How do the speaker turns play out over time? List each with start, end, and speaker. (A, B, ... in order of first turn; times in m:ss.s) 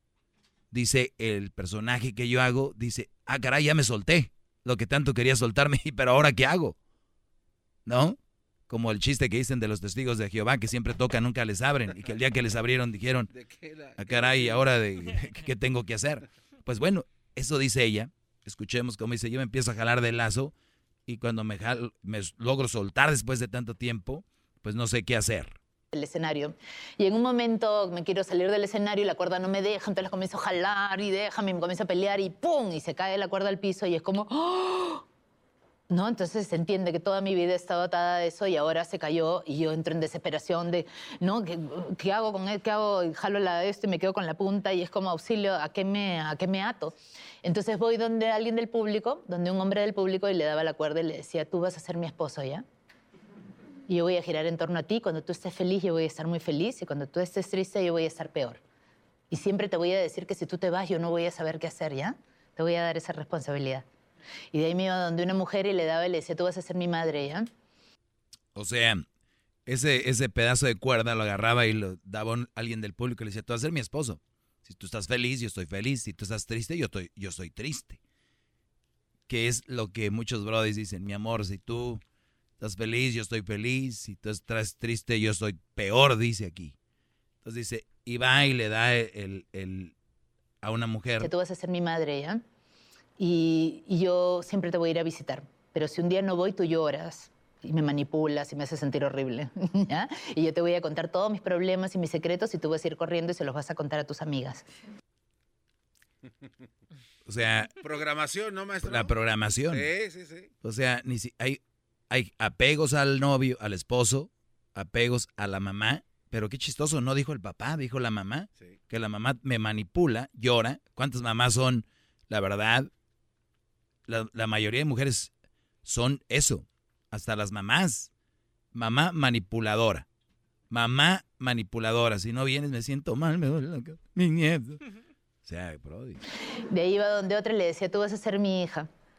0:00.7-0:06.8 A
0:07.8-0:08.2 A
0:08.7-0:13.3 A
0:13.3-0:14.5 B
0:14.0-0:20.5 A
0:21.1-0:25.6 A
0:25.9-0:35.0 C
0:35.9-0:52.6 C
0:53.9-0:58.6 C
0:59.3-1:03.8 C
1:04.5-1:07.4 C
1:08.5-1:09.0 A
1:09.6-1:18.0 A
1:19.3-1:22.0 A
1:22.6-1:26.7 A
1:27.4-1:29.9 A
1:30.6-1:31.3 A
1:31.2-1:32.4 C
1:33.2-1:44.6 C
1:47.2-1:47.7 A
1:47.8-1:49.1 B
1:48.8-1:49.9 A
1:49.7-1:50.5 B
1:50.6-2:02.9 A
2:04.1-2:05.3 A
2:05.8-2:08.1 A
2:08.7-2:10.0 A
2:10.7-2:14.8 A
2:15.4-2:16.2 A
2:16.7-2:18.9 C